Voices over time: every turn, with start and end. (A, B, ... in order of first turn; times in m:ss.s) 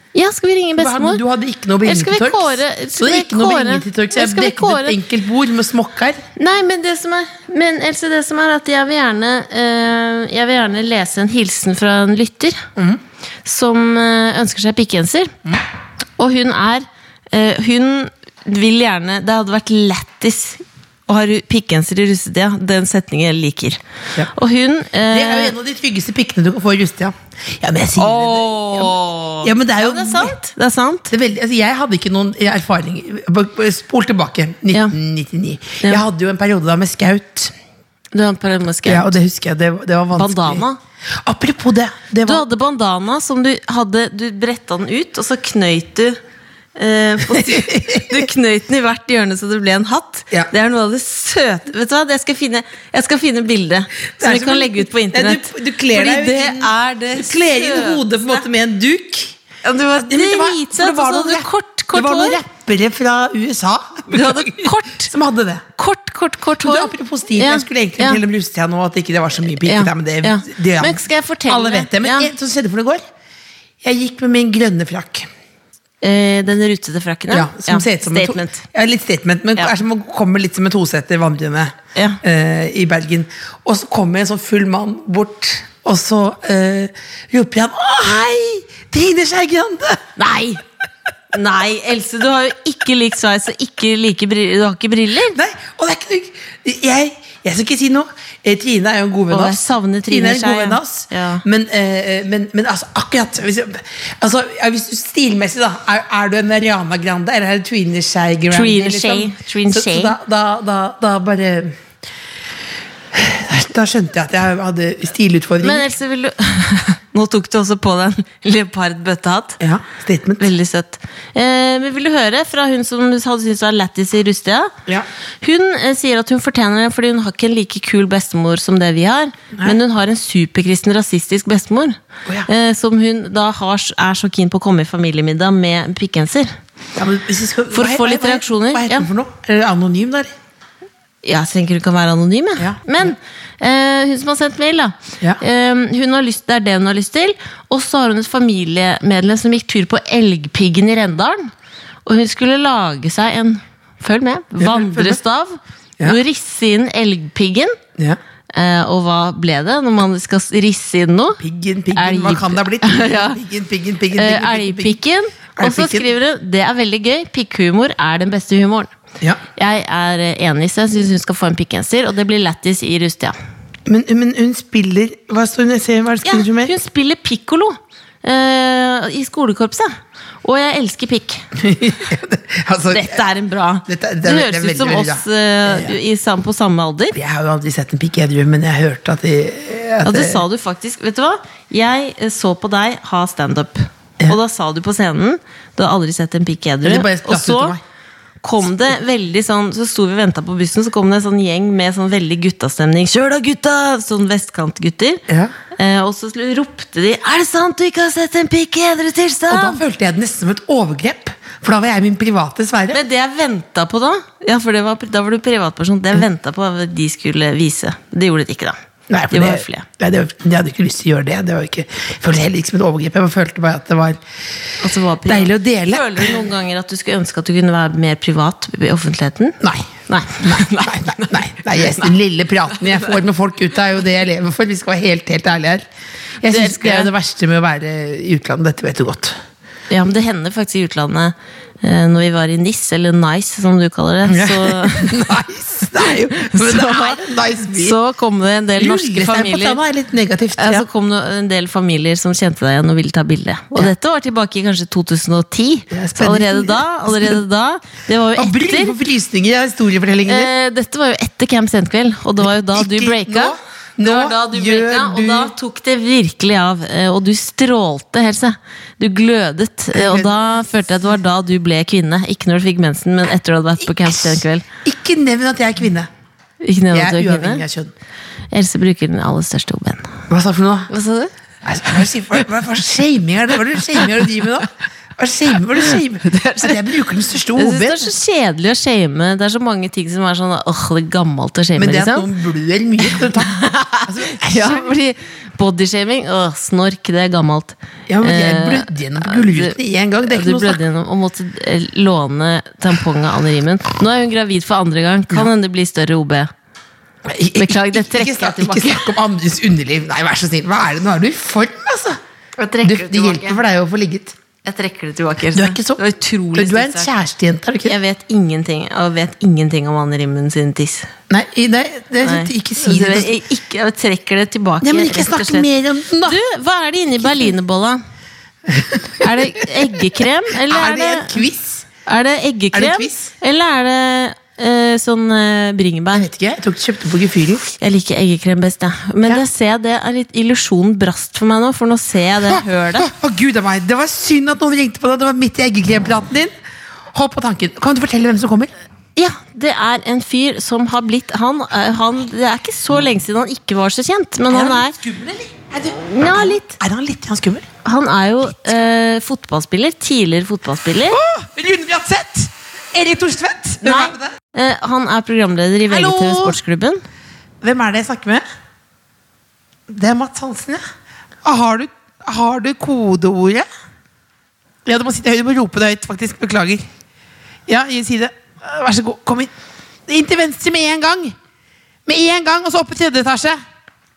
0:00.1-0:01.2 A
0:00.8-0:06.2 B
0:01.8-0:05.0 A
0:06.4-0:12.6 A
0:13.4-0:15.3 A
0:16.2-0:25.5 A
0:25.1-0:30.4 B
0:28.0-0:31.1 A
0:31.1-0:37.5 B
0:38.1-0:39.2 A
0:38.9-0:40.7 B
0:40.1-0:40.8 A
0:41.2-0:42.4 B
0:42.2-0:46.2 A
0:46.8-0:58.4 A
0:47.3-0:48.3 B
0:54.2-0:59.4 B
0:59.6-1:02.4 A
1:00.0-1:05.6 B
1:04.1-1:05.1 A
1:05.8-1:08.2 A
1:06.6-1:13.0 B
1:09.6-1:12.3 A
1:13.8-1:15.3 B
1:16.0-1:18.6 A
1:17.3-1:30.0 B
1:30.2-1:30.6 A
1:31.3-1:35.4 A
1:35.3-1:51.8 B
1:39.3-1:41.4 A
1:48.5-1:50.2 A
1:53.1-1:55.9 B
1:55.6-1:59.6 A
1:59.6-2:00.4 B
2:00.4-2:04.7 A
2:05.4-2:16.6 A
2:17.0-2:20.3 B
2:17.7-2:19.1 A
2:21.2-2:31.5 A
2:22.6-2:23.1 B
2:32.0-2:37.8 A
2:34.6-2:35.2 B
2:38.5-2:41.4 A
2:41.4-2:45.0 B
2:42.0-2:43.4 A
2:44.2-2:48.9 A
2:45.6-2:46.1 B
2:49.6-2:53.4 A
2:53.9-2:56.7 B
2:56.2-2:59.9 A
3:00.4-3:01.4 A
3:01.6-3:03.2 B
3:02.9-3:07.2 A
3:03.9-3:06.0 B
3:07.2-3:10.4 B
3:10.0-3:17.8 A
3:16.8-3:17.8 B
3:18.4-3:25.2 A
3:25.8-3:29.8 A
3:29.5-3:33.0 B
3:32.9-3:38.8 A
3:39.1-3:44.2 B
3:39.3-3:39.9 A
3:44.8-3:49.6 A
3:45.3-3:46.4 B
3:49.6-3:55.8 B
3:50.1-3:52.1 A
3:56.4-3:59.4 B
3:56.5-3:57.1 A
3:59.9-4:05.1 A
4:04.3-4:08.0 B
4:06.1-4:09.8 A
4:08.8-4:10.9 B
4:10.6-4:19.0 A
4:15.9-4:17.4 B
4:18.4-4:20.5 B
4:20.3-4:34.7 A
4:22.7-4:25.5 B
4:29.9-4:30.5 B
4:33.9-4:36.1 B
4:36.6-4:37.6 A
4:36.9-4:37.9 B
4:38.5-4:40.2 A
4:40.3-4:40.9 B
4:40.9-4:41.3 A
4:41.6-4:48.1 B
4:45.8-4:46.8 A
4:47.6-4:52.3 A
4:51.8-4:54.9 B
4:53.0-4:59.8 A
4:58.1-5:00.8 B
5:00.3-5:06.5 A
5:07.3-5:12.2 B
5:07.6-5:09.1 A
5:12.6-5:13.6 A
5:12.8-5:14.4 B
5:14.6-5:17.1 A
5:15.5-5:16.0 B
5:16.5-5:18.0 B
5:17.8-5:21.1 A
5:21.3-5:23.4 B
5:22.2-5:25.7 A
5:24.8-5:26.4 B
5:26.2-5:28.0 A
5:28.7-5:29.7 B
5:29.2-5:31.4 A
5:30.6-5:31.9 B
5:32.1-5:36.3 A
5:32.7-5:33.3 B
5:36.1-5:37.7 B
5:37.8-5:43.1 A
5:42.5-5:46.5 B
5:47.1-5:48.7 B
5:49.2-5:55.0 A
5:54.5-5:57.7 B
5:56.0-5:56.8 A
5:57.8-6:01.2 A
6:01.1-6:04.4 B
6:03.8-6:07.0 A
6:05.9-6:06.6 B
6:07.6-6:08.4 B
6:09.9-6:10.8 B
6:11.4-6:13.7 B
6:14.9-6:16.9 B
6:17.7-6:19.5 B
6:20.1-6:21.4 B
6:22.1-6:23.6 B